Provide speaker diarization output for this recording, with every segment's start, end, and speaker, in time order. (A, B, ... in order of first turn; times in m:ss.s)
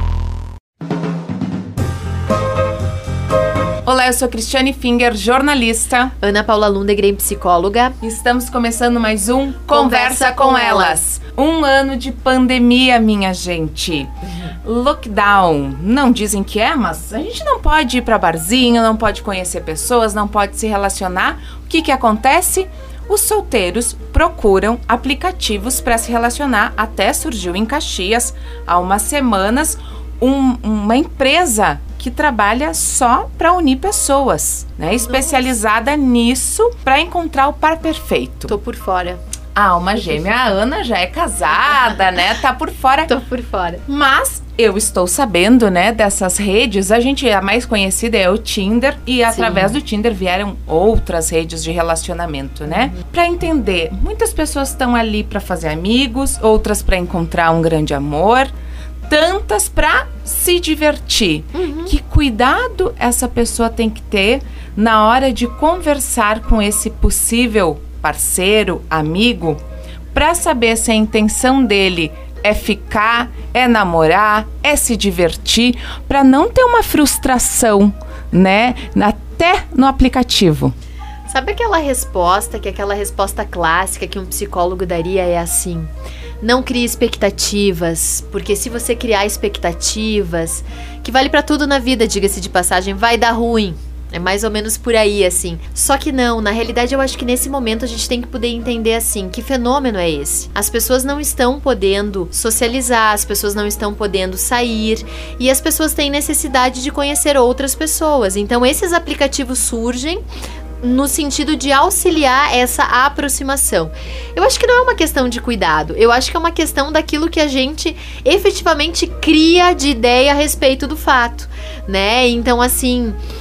0:03.8-0:06.1 A
0:06.2-0:08.0 B
0:08.0-0:38.6 A
0:09.7-0:11.0 B
0:35.1-0:35.4 B
0:38.5-0:39.2 B
0:39.5-0:43.1 A
0:43.1-0:43.8 B
0:43.9-0:58.5 A
0:49.3-0:49.8 B
0:59.1-1:09.6 A
1:01.5-1:01.9 B
1:10.1-1:20.8 A
1:21.3-1:25.9 B
1:26.4-1:50.2 B
1:50.8-2:03.2 B